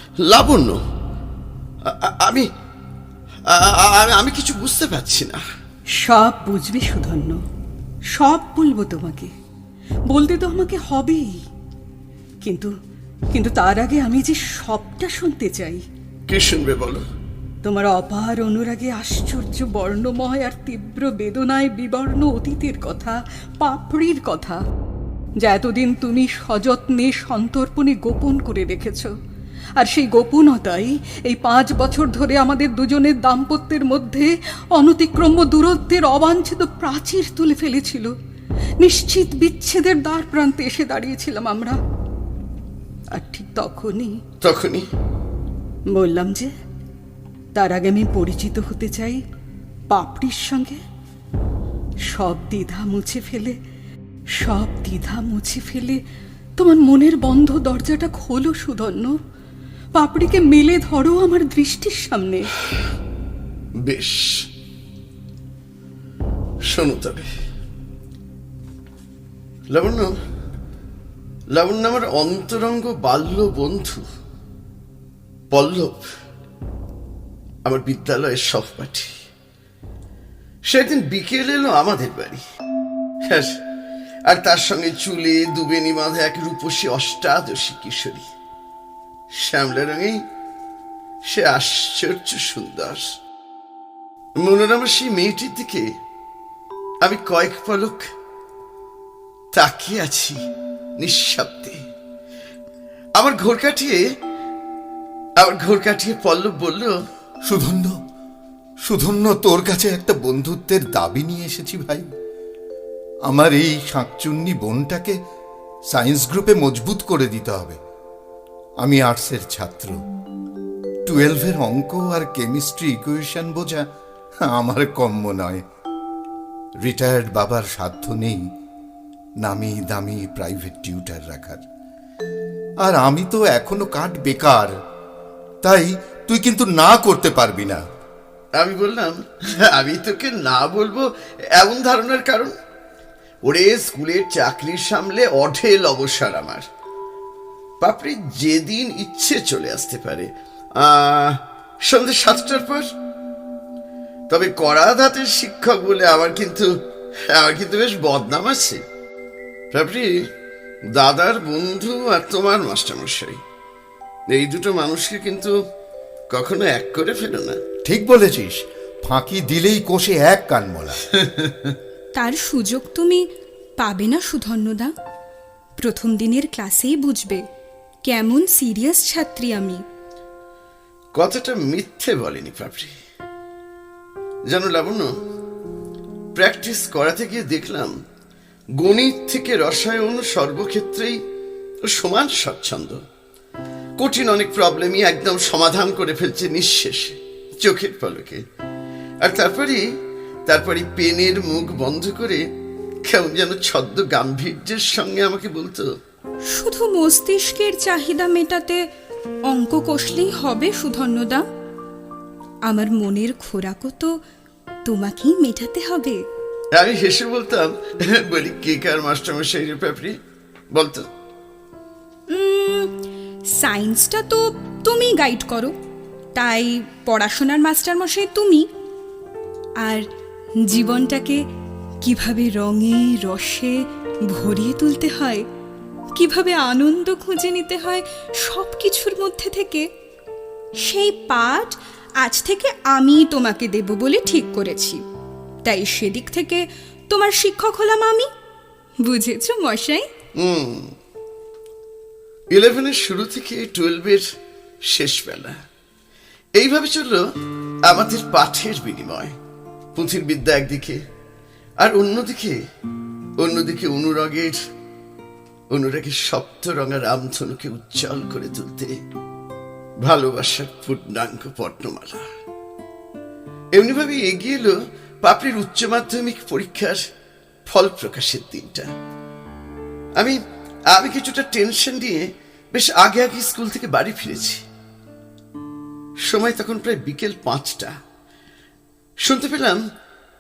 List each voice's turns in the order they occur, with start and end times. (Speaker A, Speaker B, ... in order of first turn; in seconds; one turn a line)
Speaker A: 0.3-0.8
Speaker A: 1.9-2.5
Speaker A: 3.5-5.4
Speaker B: 6.0-7.4
Speaker B: 8.2-9.3
Speaker B: 10.1-11.4
Speaker B: 12.4-12.7
Speaker B: 13.3-15.8
Speaker A: 16.3-17.1
Speaker B: 17.6-24.6
Speaker B: 25.4-29.1
Speaker B: 29.8-38.1
Speaker B: 38.8-41.8
Speaker B: 43.1-44.2
Speaker A: 44.4-44.9
Speaker B: 45.9-46.5
Speaker B: 47.5-49.2
Speaker B: 49.9-50.8
Speaker B: 52.1-53.6
Speaker B: 54.4-56.0
Speaker B: 56.6-59.2
Speaker B: 60.0-62.5
Speaker A: 63.8-64.5
Speaker A: 66.7-67.3
Speaker A: 69.7-70.2
Speaker A: 71.5-74.1
Speaker A: 75.5-76.1
Speaker A: 77.7-79.1
Speaker A: 80.7-82.4
Speaker A: 83.3-83.6
Speaker A: 84.3-88.2
Speaker A: 89.3-90.2
Speaker A: 91.2-93.1
Speaker A: 94.4-95.9
Speaker A: 97.0-98.1
Speaker A: 99.5-100.4
Speaker A: 101.0-101.8
Speaker A: 103.2-104.0
Speaker A: 105.4-106.9
Speaker C: 107.5-108.0
Speaker C: 108.8-112.1
Speaker C: 113.3-115.2
Speaker C: 115.9-117.8
Speaker C: 118.8-120.0
Speaker C: 121.1-123.9
Speaker C: 124.4-125.6
Speaker C: 126.8-128.4
Speaker C: 129.4-131.6
Speaker C: 132.8-134.7
Speaker C: 135.6-137.8
Speaker A: 138.6-142.5
Speaker A: 143.4-146.7
Speaker A: 147.8-152.9
Speaker A: 154.3-156.8
Speaker A: 157.3-158.8
Speaker A: 159.7-160.3
Speaker A: 160.9-163.4
Speaker A: 164.3-165.6
Speaker A: 166.3-167.6
Speaker C: 167.8-171.0
Speaker D: 172.2-173.3
Speaker D: 173.8-174.9
Speaker D: 175.8-177.4
Speaker D: 178.1-179.8
Speaker A: 181.2-182.9
Speaker A: 184.5-185.1
Speaker A: 186.3-187.9
Speaker A: 188.8-191.2
Speaker A: 191.8-193.0
Speaker A: 194.0-198.4
Speaker A: 199.2-199.9
Speaker A: 200.5-202.4
Speaker A: 203.1-205.9
Speaker D: 206.5-208.8
Speaker D: 209.5-211.4
Speaker D: 212.7-214.1
Speaker D: 214.8-216.2
Speaker A: 216.8-220.2
Speaker A: 220.7-221.1
Speaker D: 222.3-223.0
Speaker D: 223.6-225.7
Speaker D: 226.4-228.7
Speaker D: 230.7-231.4
Speaker D: 232.0-235.5
Speaker D: 236.2-239.9
Speaker D: 240.8-245.0
Speaker D: 245.7-248.3
Speaker D: 249.0-250.1
Speaker A: 250.4-250.9
Speaker A: 252.5-254.2
Speaker A: 254.9-255.6
Speaker A: 256.6-257.2
Speaker A: 257.9-259.4
Speaker A: 260.0-261.0
Speaker A: 261.8-262.6
Speaker A: 263.4-264.6
Speaker A: 265.7-269.0
Speaker A: 270.0-272.3
Speaker A: 273.8-277.0
Speaker A: 277.7-278.9
Speaker A: 280.9-284.6
Speaker A: 286.2-287.9
Speaker A: 289.2-289.8